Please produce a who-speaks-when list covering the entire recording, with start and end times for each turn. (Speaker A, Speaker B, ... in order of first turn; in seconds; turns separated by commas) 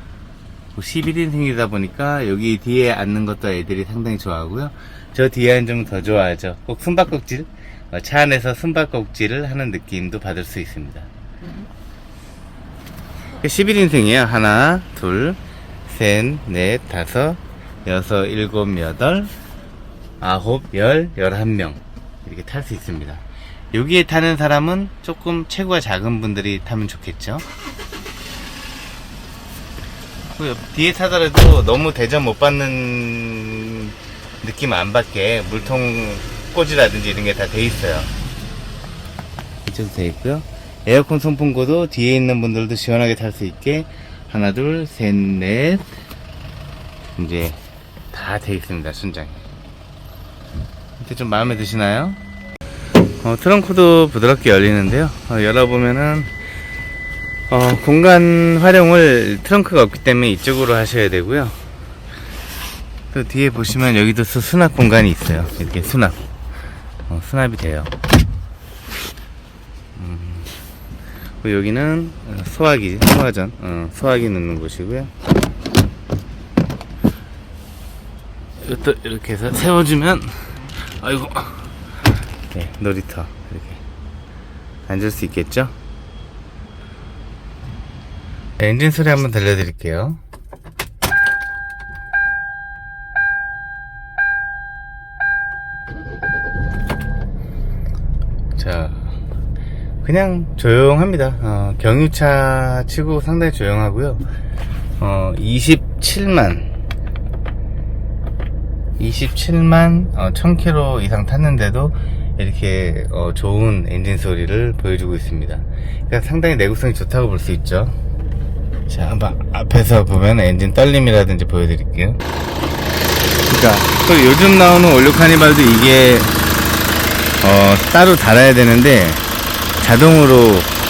Speaker A: 0.8-11.1, Speaker A: 13.4-19.3, Speaker A: 20.2-27.4, Speaker A: 30.4-38.1, Speaker A: 39.6-45.9, Speaker A: 47.2-49.4, Speaker A: 51.0-52.2, Speaker A: 53.2-56.3, Speaker A: 57.5-61.6, Speaker A: 63.1-66.2, Speaker A: 67.1-67.9, Speaker A: 70.0-70.5, Speaker A: 71.4-75.1, Speaker A: 78.6-81.7, Speaker A: 82.5-83.8, Speaker A: 84.9-85.7, Speaker A: 88.6-90.2, Speaker A: 98.5-99.1, Speaker A: 100.0-104.2, Speaker A: 105.0-106.7, Speaker A: 109.0-118.0, Speaker A: 118.9-122.2, Speaker A: 123.4-126.3, Speaker A: 127.4-129.2, Speaker A: 129.8-130.7